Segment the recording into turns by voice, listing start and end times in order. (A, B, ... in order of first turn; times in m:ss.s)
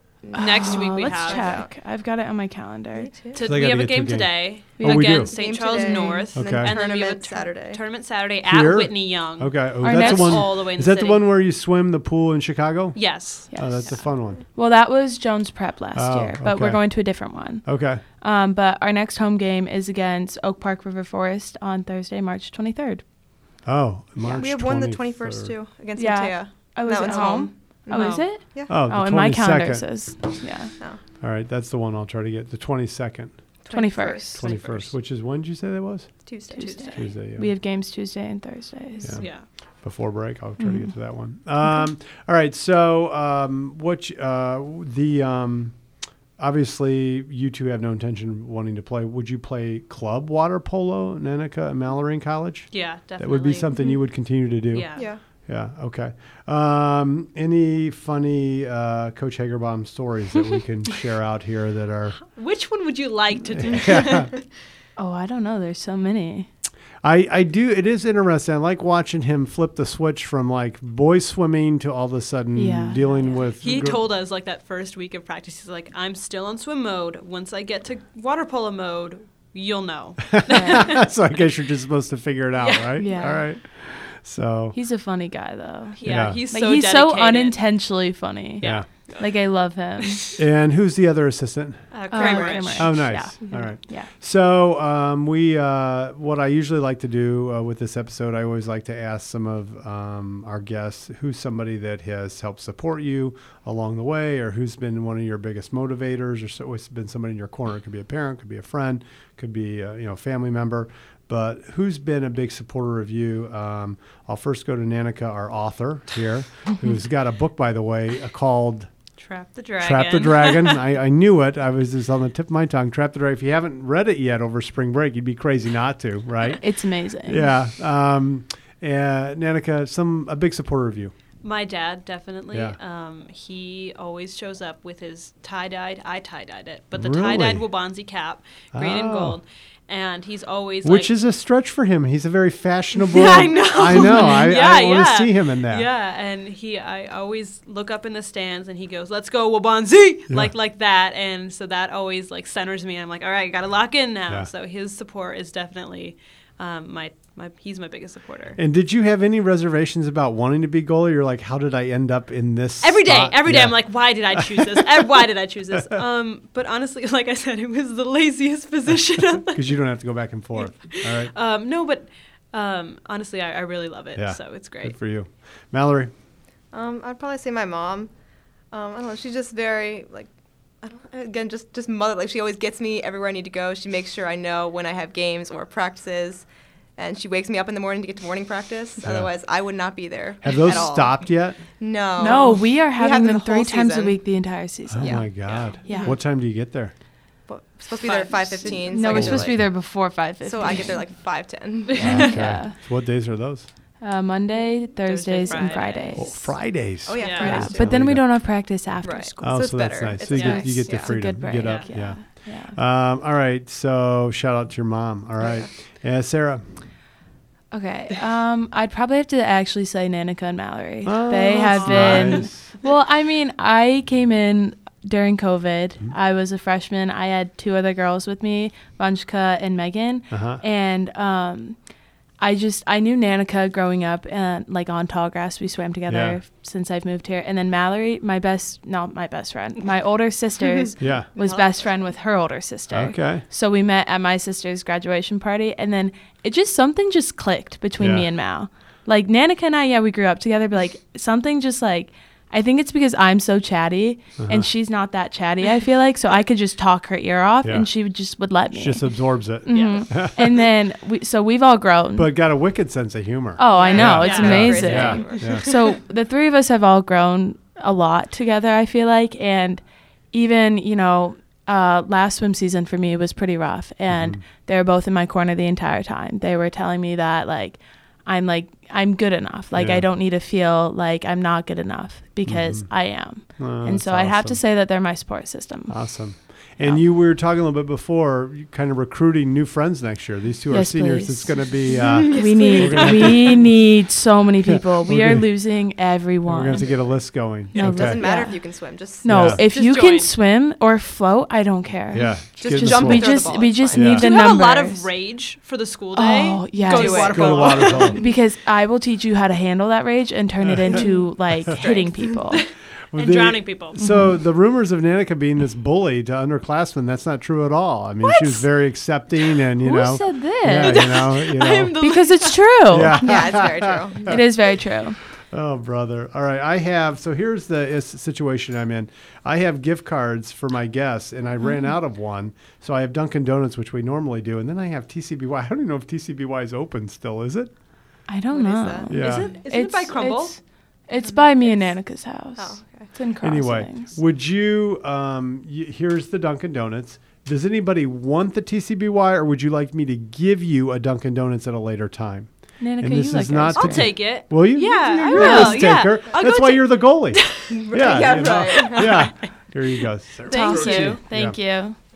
0:00.2-0:01.7 A
0:00.3-0:03.1 B
0:00.3-0:01.5 C
0:02.9-0:03.6 A
0:03.3-0:11.2 C
0:03.4-0:05.3 D
0:04.8-0:06.2 B
0:05.3-0:07.8 A
0:06.3-0:06.8 D
0:08.4-0:14.4 D
0:09.8-0:10.5 B
0:13.0-0:13.8 C
0:13.5-0:23.0 B
0:16.0-0:17.1 D
0:17.6-0:18.0 D
0:23.6-0:25.6 D
0:24.2-0:28.7 A
0:26.0-0:30.7 B
0:27.9-0:28.2 C
0:28.7-0:30.2 D
0:31.2-0:33.4 D
0:33.6-0:34.9 A
0:33.7-0:34.4 B
0:34.3-0:37.5 D
0:36.2-0:37.0 A
0:36.5-0:39.2 B
0:39.0-0:39.3 D
0:39.2-0:39.4 C
0:39.8-0:45.8 D
0:40.6-0:40.9 B
0:46.4-1:02.2 D
0:52.7-0:53.8 C
0:54.7-0:55.1 C
0:55.0-0:55.2 A
1:02.3-1:04.3 C
1:03.6-1:04.3 D
1:05.0-1:06.5 B
1:07.0-1:14.1 D
1:12.6-1:13.5 B
1:13.6-1:21.0 C
1:20.4-1:24.8 D
1:20.5-1:20.8 B
1:22.6-1:23.3 C
1:23.0-1:23.5 B
1:24.7-1:30.2 B
1:26.0-1:27.6 C
1:26.0-1:26.4 D
1:28.6-1:29.2 C
1:28.6-1:28.9 D
1:30.4-1:32.0 D
1:31.9-1:33.1 C
1:32.1-1:34.1 B
1:32.2-1:32.7 A
1:32.6-1:58.9 D
1:59.2-2:00.8 C
1:59.8-2:06.6 D
2:06.5-2:07.5 B
2:07.2-2:11.1 D
2:11.4-2:21.1 C
2:12.5-2:12.8 D
2:17.0-2:17.7 D
2:18.7-2:19.4 D
2:20.8-2:25.9 D
2:23.0-2:38.6 C
2:38.6-2:44.8 D
2:42.8-2:49.7 C
2:49.5-2:51.3 D
2:50.6-2:55.0 C
2:54.2-2:56.1 D
2:56.7-2:58.1 A
2:58.7-3:00.3 A
3:00.8-3:06.5 A
3:07.0-3:14.2 A
3:09.0-3:09.3 D
3:10.4-3:11.6 D
3:12.2-3:16.2 B
3:14.9-3:16.9 D
3:15.0-3:15.3 A
3:15.4-3:15.9 C
3:15.9-3:16.1 A
3:17.5-3:19.6 A
3:18.0-3:18.7 C
3:18.6-3:21.1 B
3:19.0-3:19.6 D
3:20.4-3:22.4 A
3:21.9-3:22.4 C
3:22.0-3:22.8 B
3:22.0-3:23.6 D
3:24.0-3:26.7 B
3:25.0-3:26.3 C
3:25.5-3:25.8 A
3:26.1-3:28.3 D
3:27.0-3:28.0 A
3:27.2-3:27.6 C
3:27.4-3:29.8 B
3:29.0-3:31.1 A
3:29.4-3:36.6 D
3:30.3-3:30.7 C
3:30.4-3:32.8 B
3:31.6-3:31.9 C
3:35.4-3:35.7 A
3:37.7-3:51.8 B
3:41.0-3:42.7 D
3:41.5-3:42.5 C
3:50.3-3:50.6 D
3:52.4-4:22.4 B
3:56.1-3:56.4 D
4:01.0-4:01.3 D
4:01.4-4:01.8 A
4:02.9-4:03.4 D
4:08.0-4:08.3 D
4:14.4-4:14.7 D
4:17.6-4:17.9 D
4:18.7-4:20.3 D
4:19.7-4:20.1 C
4:22.2-4:25.8 D
4:23.6-4:46.2 B
4:23.7-4:25.8 A
4:23.8-4:25.1 C
4:34.1-4:34.4 D
4:39.7-4:40.1 D
4:42.5-4:44.6 D
4:45.9-4:53.7 D
4:50.7-5:05.1 B
4:52.1-4:53.1 A
4:54.7-4:55.9 D
4:56.5-4:58.2 D
4:57.8-4:59.6 A
4:59.2-4:59.6 D
4:59.6-5:00.3 C
5:02.1-5:03.4 D
5:02.6-5:04.2 A
5:03.9-5:04.3 D
5:04.1-5:08.2 C
5:06.1-5:12.6 B
5:06.8-5:08.3 A
5:07.3-5:08.2 D
5:10.6-5:11.0 D
5:11.7-5:14.0 C
5:13.1-5:22.0 D
5:14.0-5:14.4 B
5:18.2-5:18.5 C
5:19.8-5:21.1 B
5:20.8-5:22.6 C
5:22.0-5:23.4 B
5:22.9-5:24.5 D
5:23.1-5:24.4 A
5:24.3-5:25.2 B
5:25.5-5:37.7 D
5:31.6-5:31.9 B
5:38.3-5:44.2 B
5:38.5-5:39.3 A
5:39.1-5:39.5 D
5:39.1-5:40.6 C
5:41.2-5:42.0 A
5:42.6-5:43.1 A
5:43.4-6:01.6 D
5:52.8-5:54.1 B
5:53.8-5:59.3 C
5:55.3-5:55.9 B
5:57.7-5:59.3 A
6:00.5-6:02.0 B
6:00.5-6:01.2 C